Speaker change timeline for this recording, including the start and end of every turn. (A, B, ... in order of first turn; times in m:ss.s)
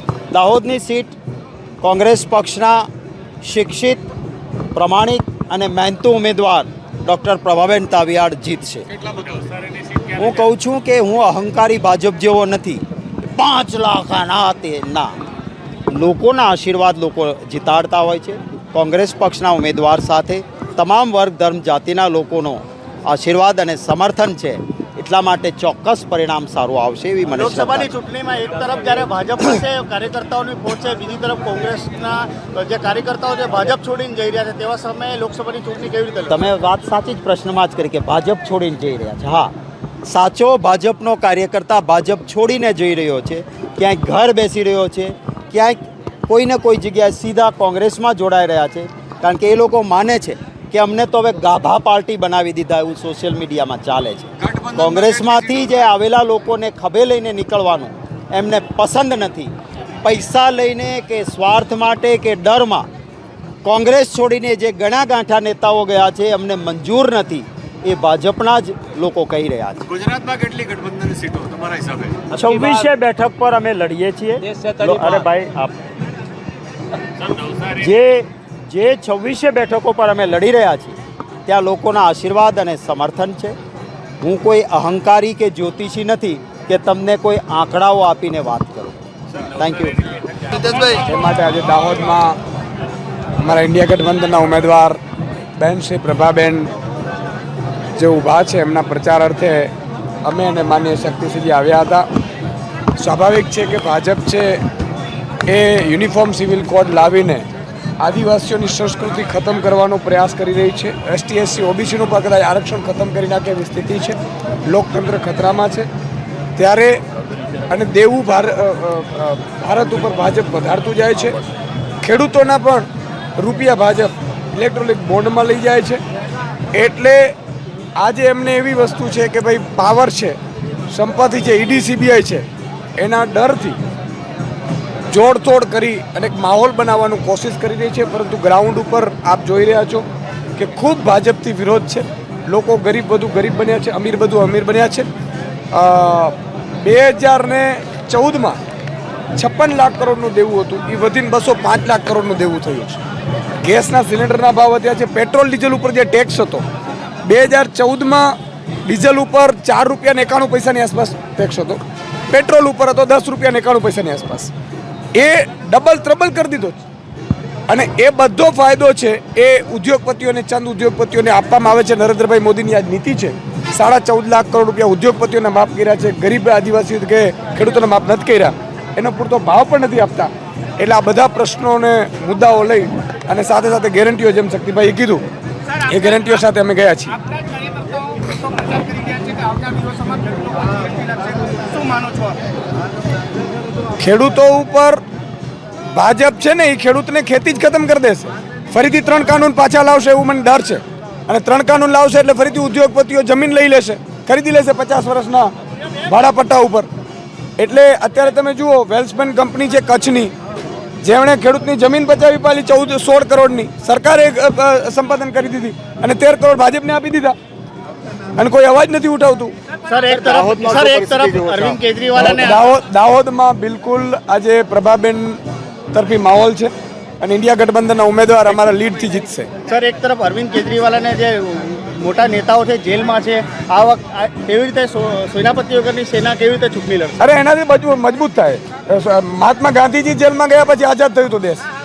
0:00.3-0:01.2 A
0:01.8-0:02.9 A
0:03.4-0:04.0 A
0:04.7-0:08.8 A
0:09.1-0:09.7 B
0:10.1-0:12.8 A
0:13.3-0:15.2 A
0:15.9-0:27.9 A
0:27.4-0:36.4 C
0:36.3-0:39.5 A
0:40.0-0:59.5 A
1:00.0-1:02.8 A
1:03.6-1:09.9 A
1:10.0-1:12.2 B
1:12.3-1:15.8 A
1:17.5-1:20.9 A
1:21.4-1:23.6 A
1:24.2-1:30.1 A
1:30.9-1:32.4 D
1:33.4-1:35.0 D
1:35.6-1:36.7 D
1:38.0-1:39.7 D
1:40.2-1:42.0 D
1:43.0-1:44.6 D
1:45.5-1:47.5 D
1:48.0-1:55.9 D
1:56.6-1:57.0 D
1:57.7-2:01.4 D
2:02.0-2:02.9 D
2:03.4-2:06.0 D
2:06.7-2:07.3 D
2:08.0-2:10.4 D
2:10.9-2:12.5 D
2:13.0-2:13.8 D
2:15.1-2:25.1 D
2:25.7-2:28.6 D
2:29.4-2:33.0 D
2:33.6-2:36.6 D
2:37.2-2:38.3 D
2:38.8-2:44.5 D
2:45.1-2:46.8 D
2:47.7-3:05.2 D
3:05.8-3:07.2 D
3:08.5-3:12.4 C
3:14.0-3:15.0 D
3:15.9-3:25.5 D
3:26.0-3:26.9 D
3:27.6-3:30.3 D
3:31.0-3:37.4 D
3:38.4-3:39.5 D
3:39.9-3:42.6 C
3:40.2-3:41.8 A
3:42.2-3:45.4 D
3:45.9-3:49.5 D
3:49.7-3:57.2 C
3:57.2-4:01.6 D